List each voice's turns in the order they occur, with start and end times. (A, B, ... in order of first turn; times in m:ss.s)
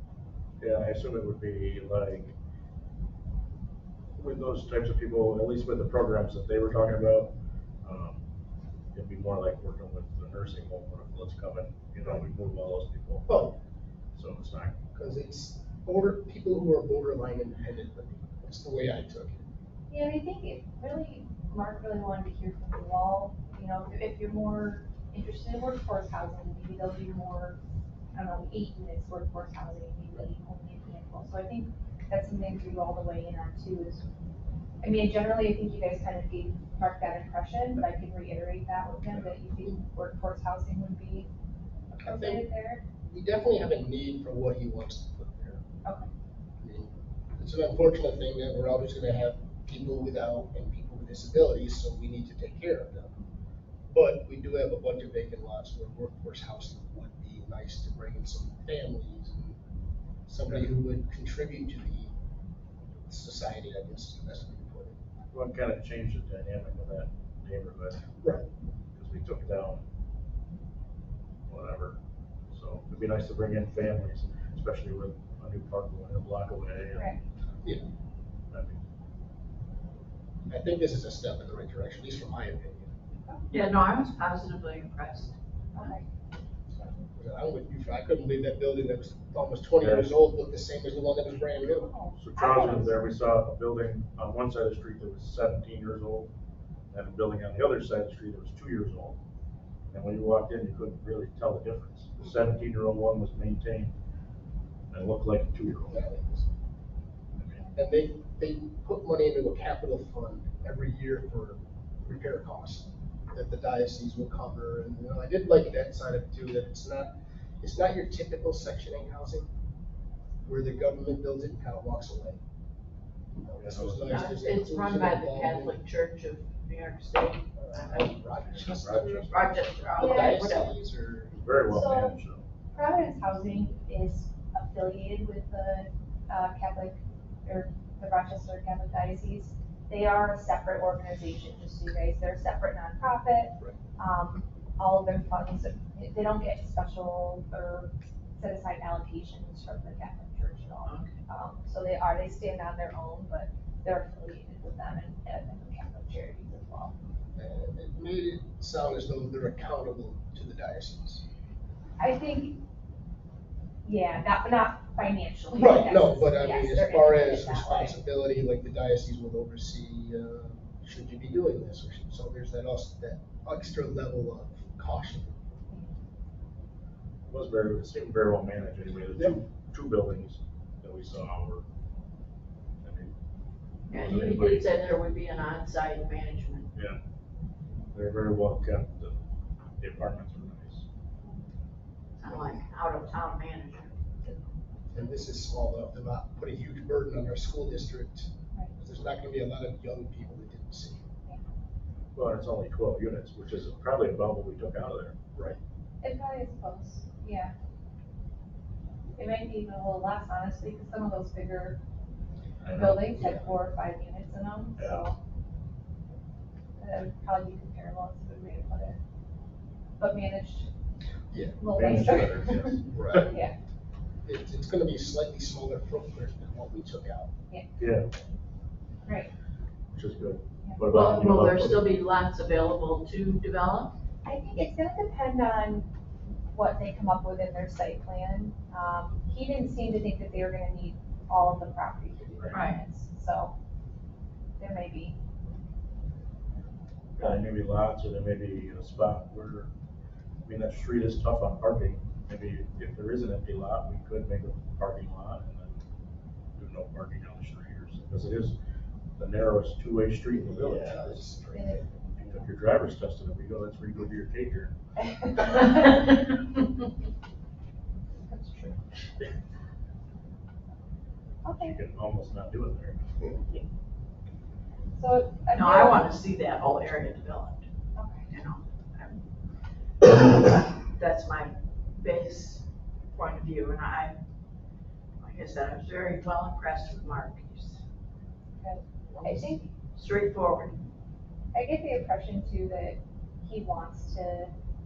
0:00.6-0:02.3 A
0:04.2-0:07.3 A
0:07.8-0:08.2 A
0:08.9-0:13.4 A
0:13.3-0:13.6 B
0:14.2-0:14.8 A
0:14.9-0:19.4 B
0:19.9-0:27.6 C
0:28.1-0:34.0 C
0:34.8-0:41.3 C
0:41.9-0:42.8 C
0:42.0-0:42.5 B
0:43.0-0:45.6 B
0:46.6-0:53.2 B
0:53.9-0:59.6 B
1:00.3-1:02.1 B
1:03.1-1:05.0 B
1:05.3-1:08.1 A
1:08.2-1:08.5 B
1:09.0-1:09.8 A
1:11.5-1:12.0 A
1:12.5-1:17.1 A
1:17.0-1:17.2 C
1:18.5-1:18.8 A
1:20.5-1:22.9 B
1:23.5-1:25.4 D
1:25.8-1:26.0 C
1:27.2-1:31.9 B
1:29.8-1:30.2 A
1:31.8-1:33.0 C
1:32.2-1:36.3 A
1:36.9-1:39.2 A
1:39.9-1:43.9 A
1:44.9-1:46.0 A
1:45.9-1:46.5 B
1:47.4-1:47.6 A
1:47.8-1:57.1 B
1:57.6-1:59.5 B
2:00.5-2:02.4 B
2:03.4-2:05.8 B
2:03.6-2:04.4 A
2:04.1-2:08.1 D
2:07.6-2:11.6 B
2:08.4-2:09.8 A
2:09.3-2:10.8 D
2:10.0-2:10.6 C
2:11.3-2:12.4 A
2:11.7-2:12.2 C
2:12.8-2:36.9 C
2:30.8-2:31.2 D
2:37.4-2:41.2 B
2:42.0-2:42.6 C
2:43.8-2:48.0 C
2:45.5-2:55.4 B
2:57.3-3:01.6 A
3:02.8-3:03.1 A
3:03.9-3:06.7 D
3:03.9-3:04.7 A
3:07.9-3:09.2 A
3:09.8-3:10.8 A
3:12.2-3:14.4 D
3:14.9-3:21.0 B
3:22.2-3:25.5 A
3:26.0-3:27.5 C
3:29.2-3:31.8 C
3:32.6-3:33.2 A
3:32.7-3:35.2 C
3:33.1-3:33.5 B
3:34.8-3:35.1 A
3:36.8-3:39.0 C
3:40.0-3:40.7 C
3:41.3-3:41.6 B
3:41.6-3:42.7 C
3:41.7-3:43.2 A
3:42.9-3:43.3 B
3:43.2-3:43.5 C
3:44.2-3:47.3 B
3:47.8-3:48.1 A
3:49.1-3:49.3 C
3:49.9-3:51.9 A
3:50.9-3:53.9 D
3:54.2-3:55.9 C
3:56.5-4:03.5 C
4:02.5-4:02.8 D
4:04.6-4:05.2 C
4:07.2-4:09.7 A
4:10.5-4:15.8 A
4:16.6-4:18.6 A
4:19.2-4:21.3 A
4:20.5-4:21.9 B
4:21.6-4:22.0 C
4:22.2-4:24.8 A
4:25.0-4:26.1 C
4:28.3-4:28.8 C
4:31.4-4:31.7 C
4:31.6-4:33.0 A
4:35.0-4:36.1 C
4:35.5-4:37.6 D
4:38.0-4:38.3 C
4:38.3-4:39.2 D
4:40.0-4:44.2 D
4:45.2-4:47.8 D
4:48.6-4:49.7 C
4:49.1-4:49.6 B
4:50.0-4:50.9 D
4:51.5-4:54.5 C